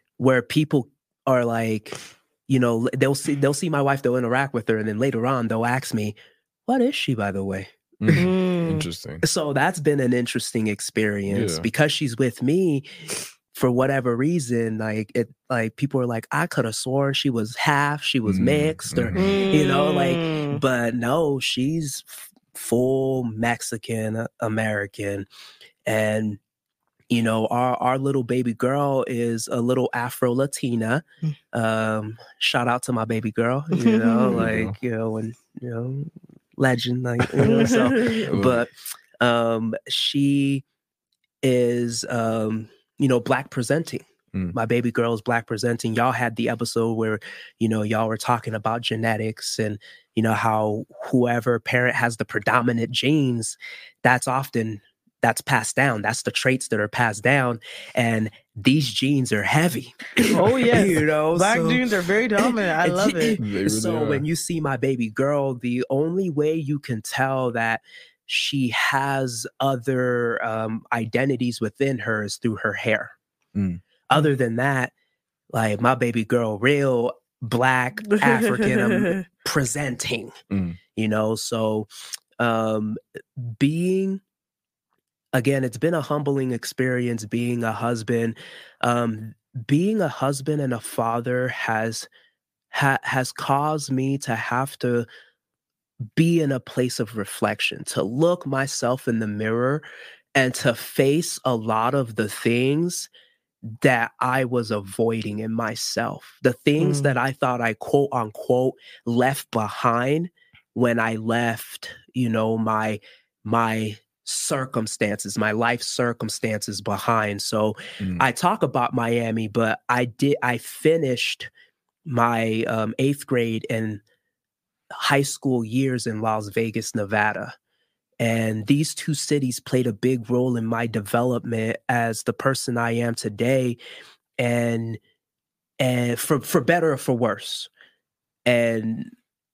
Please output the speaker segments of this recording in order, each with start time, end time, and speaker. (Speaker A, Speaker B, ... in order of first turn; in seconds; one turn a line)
Speaker A: 0.2-6.1
Speaker A: 6.7-8.3
Speaker B: 8.0-9.2
Speaker C: 8.1-8.9
Speaker A: 9.2-12.9
Speaker B: 11.3-11.7
Speaker A: 13.5-25.3
Speaker B: 18.2-19.4
Speaker C: 19.1-20.6
Speaker A: 25.9-26.4
Speaker A: 27.1-40.6
Speaker C: 33.8-34.5
Speaker B: 34.3-34.8
Speaker C: 37.4-38.2
Speaker B: 38.0-38.6
Speaker A: 41.4-61.8
Speaker C: 60.3-63.4
Speaker A: 62.4-73.1
Speaker B: 63.4-64.3
Speaker B: 73.5-73.8
Speaker A: 74.1-74.9
Speaker A: 75.5-80.4
Speaker C: 78.2-79.2
Speaker B: 80.5-80.8
Speaker A: 81.0-81.9
Speaker A: 82.4-84.2
Speaker A: 85.3-92.1
Speaker A: 92.7-95.1
Speaker A: 96.2-103.1
Speaker A: 103.7-121.5
Speaker C: 106.8-107.2
Speaker A: 122.1-124.0
Speaker A: 125.0-127.5
Speaker A: 128.2-133.8
Speaker A: 134.4-135.0
Speaker A: 135.8-137.7
Speaker A: 138.4-139.1